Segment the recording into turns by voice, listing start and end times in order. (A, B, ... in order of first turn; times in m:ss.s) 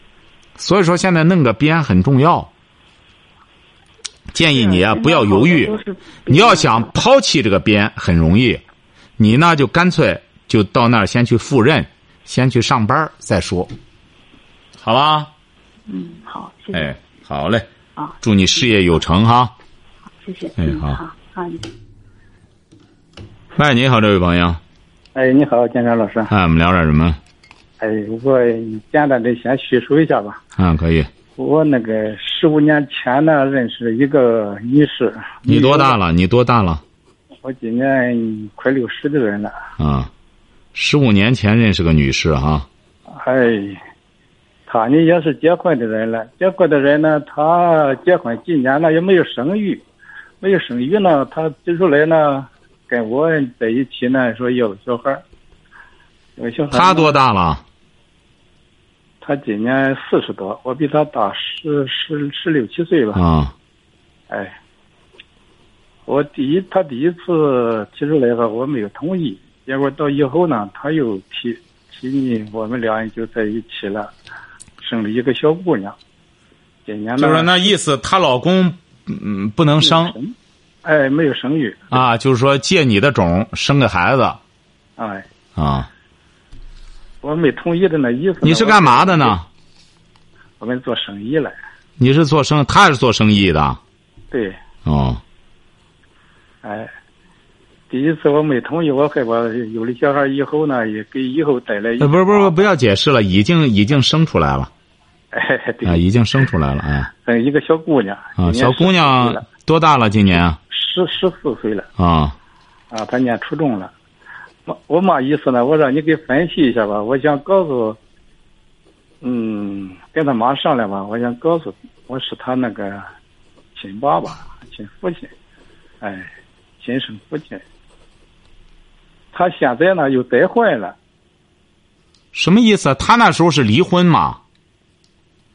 0:00.6-0:02.5 A
0:04.3-0:05.7 A
0:04.5-0:06.9 B
0:06.3-0:08.6 A
0:09.2-0:13.7 A
0:14.8-0:15.3 A
0:15.9-0:16.9 B
0:16.7-0:17.7 A
0:18.2-0:19.5 A
0:20.2-0:21.7 B
0:20.6-0:21.0 A
0:23.6-0:24.6 A
0:25.2-0:26.3 C
0:26.3-0:27.2 A
0:27.8-0:30.4 C
0:30.6-0:31.1 A
0:31.4-0:36.0 C
0:35.5-0:36.8 A
0:37.4-0:39.6 C
0:39.8-0:40.1 A
0:40.7-0:42.7 A
0:43.1-0:43.8 C
0:44.7-0:49.8 C
0:50.4-0:55.2 C
0:56.4-0:57.2 C
0:56.7-0:57.6 A
0:59.2-1:03.2 C
1:03.2-1:03.5 A
1:04.3-1:04.6 C
1:06.1-1:14.1 C
1:14.8-1:16.0 C
1:16.9-1:17.6 C
1:17.2-1:20.2 A
1:19.8-1:22.0 C
1:21.9-1:24.4 A
1:25.0-1:25.3 C
1:25.6-1:25.9 A
1:27.2-1:29.4 C
1:28.4-1:29.5 A
1:30.6-1:31.6 C
1:32.0-1:33.8 A
1:34.3-1:34.6 C
1:34.8-1:35.2 A
1:36.6-1:36.9 C
1:37.9-1:42.6 C
1:42.0-1:44.7 A
1:45.3-1:46.0 C
1:45.8-1:47.1 A
1:47.1-1:49.4 C
1:48.4-1:50.6 A
1:50.7-1:51.9 C
1:52.0-1:52.4 A
1:52.9-1:53.9 C
1:54.7-1:58.0 C
1:59.2-2:03.1 C
2:03.8-2:05.3 C
2:06.0-2:07.6 C
2:09.3-2:11.0 C
2:12.3-2:14.4 A